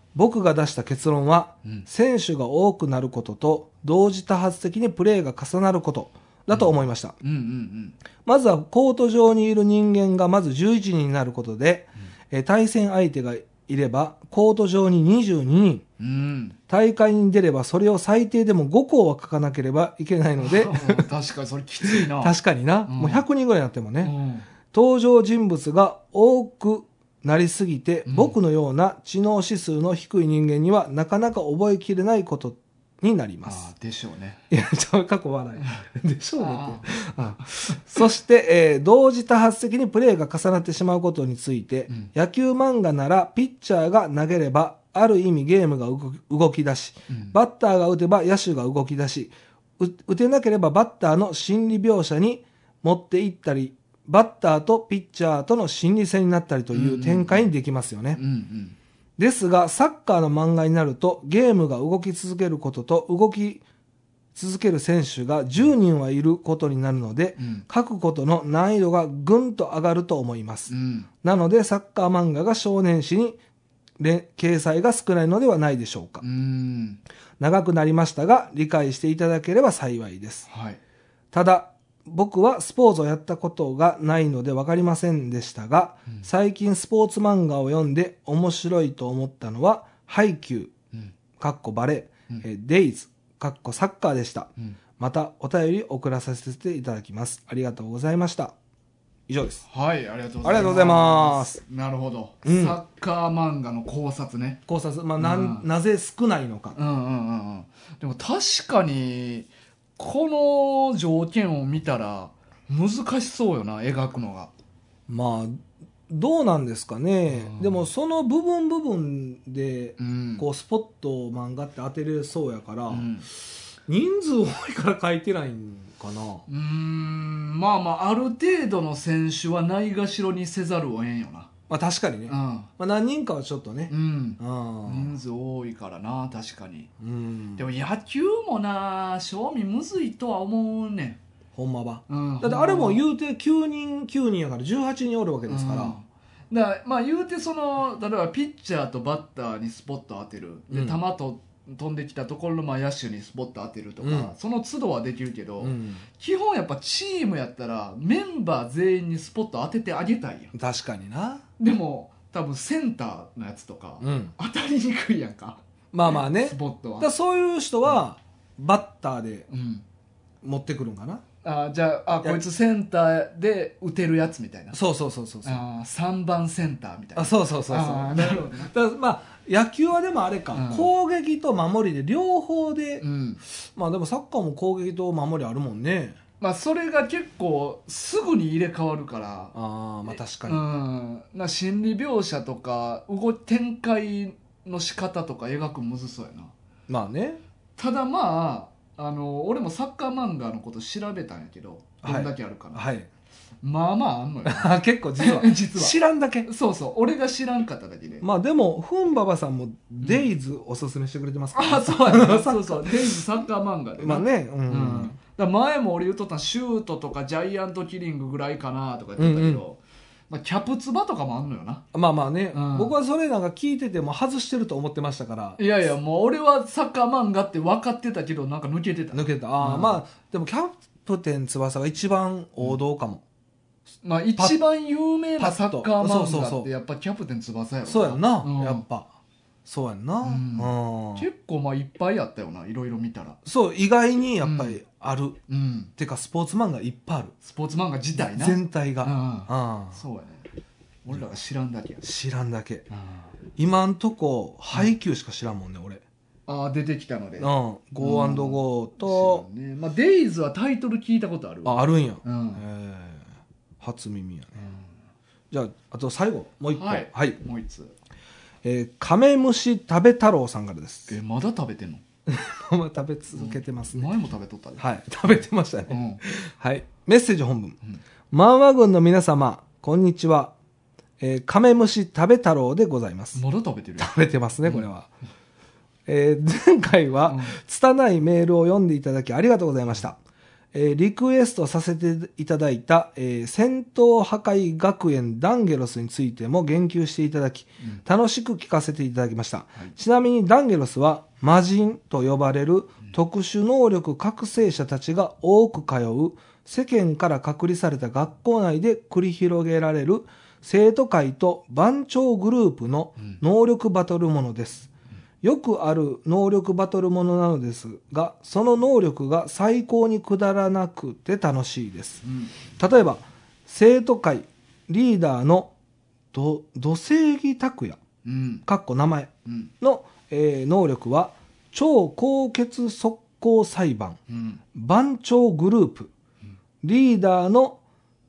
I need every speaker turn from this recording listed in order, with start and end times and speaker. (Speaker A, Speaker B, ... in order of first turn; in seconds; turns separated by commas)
Speaker A: 0.1-7.2, Speaker B: 6.5-8.0, Speaker A: 8.2-15.8, Speaker B: 16.0-16.6, Speaker A: 16.7-21.1, Speaker B: 20.4-22.3, Speaker A: 21.8-24.1, Speaker B: 22.9-23.2, Speaker B: 24.0-24.5, Speaker A: 24.7-33.7, Speaker B: 28.1-28.4, Speaker B: 33.4-34.4, Speaker A: 34.5-58.2, Speaker B: 36.4-36.9, Speaker B: 37.4-37.8, Speaker B: 47.1-47.3, Speaker B: 56.7-57.5, Speaker B: 58.1-58.8, Speaker A: 59.2-63.6, Speaker A: 64.3-70.7, Speaker B: 67.4-67.6, Speaker B: 70.7-71.1, Speaker A: 71.2-73.4, Speaker A: 74.0-76.2, Speaker B: 76.2-77.0, Speaker A: 77.4-80.5, Speaker B: 80.5-80.8, Speaker A: 81.3-90.7, Speaker A: 91.4-98.5, Speaker A: 99.3-99.6, Speaker B: 99.7-104.6, Speaker A: 100.4-101.6, Speaker A: 102.4-102.8, Speaker A: 104.7-106.8, Speaker B: 105.2-105.7, Speaker B: 106.7-114.5, Speaker A: 115.1-123.1, Speaker B: 117.3-117.9, Speaker B: 120.0-120.5, Speaker B: 122.9-123.3, Speaker A: 123.8-126.4, Speaker B: 126.5-131.5, Speaker A: 131.7-135.1, Speaker B: 132.3-132.7, Speaker B: 133.9-136.9, Speaker A: 137.0-137.7, Speaker B: 137.6-141.2, Speaker A: 141.5-146.0, Speaker B: 142.1-143.0, Speaker B: 145.5-160.5, Speaker A: 150.7-151.0, Speaker A: 154.0-154.3, Speaker A: 155.6-156.0, Speaker A: 160.5-161.4, Speaker B: 161.6-167.1, Speaker A: 164.0-164.3, Speaker A: 165.9-169.5, Speaker B: 169.5-169.8, Speaker A: 170.4-171.2, Speaker B: 171.4-174.8, Speaker A: 174.7-175.6, Speaker B: 175.4-178.7, Speaker A: 177.2-183.0, Speaker B: 180.5-180.9, Speaker B: 183.0-183.4, Speaker A: 183.7-186.2, Speaker B: 186.4-189.5, Speaker A: 189.5-190.6, Speaker B: 190.1-196.5, Speaker A: 196.9-197.4, Speaker B: 197.8-202.8, Speaker A: 202.0-203.1, Speaker B: 203.6-208.2, Speaker A: 204.4-206.5, Speaker A: 208.2-213.4, Speaker B: 211.5-221.8, Speaker A: 214.0-215.2, Speaker A: 219.2-219.6, Speaker A: 221.9-225.6, Speaker B: 222.5-222.9, Speaker B: 225.6-230.0, Speaker A: 229.1-233.2, Speaker B: 234.0-238.8, Speaker A: 235.4-236.7, Speaker A: 237.8-239.1, Speaker A: 239.7-241.2, Speaker B: 240.2-243.4, Speaker A: 243.4-245.4, Speaker B: 244.4-244.8, Speaker B: 245.5-245.9, Speaker A: 246.0-247.3, Speaker B: 247.4-250.4, Speaker A: 248.2-250.0, Speaker B: 251.0-252.0, Speaker A: 252.0-252.9, Speaker B: 252.9-253.3, Speaker A: 253.6-256.0, Speaker B: 256.5-262.6, Speaker A: 257.4-259.4, Speaker A: 261.6-263.3, Speaker A: 263.8-264.6, Speaker A: 265.5-267.4, Speaker B: 266.7-267.9, Speaker A: 268.6-271.1, Speaker B: 271.1-272.0, Speaker A: 272.3-274.1, Speaker B: 273.3-274.8, Speaker A: 274.8-277.8, Speaker B: 275.9-276.2, Speaker A: 278.3-280.5, Speaker A: 281.2-283.4, Speaker B: 283.3-284.9, Speaker A: 284.0-285.1, Speaker A: 286.1-290.2, Speaker B: 287.3-287.6, Speaker A: 290.7-314.9, Speaker A: 315.4-322.2, Speaker B: 322.2-322.5, Speaker A: 322.8-325.7, Speaker A: 326.3-328.0, Speaker B: 328.2-328.6, Speaker A: 328.6-334.2, Speaker B: 334.3-334.6, Speaker A: 334.7-336.1, Speaker A: 336.8-337.8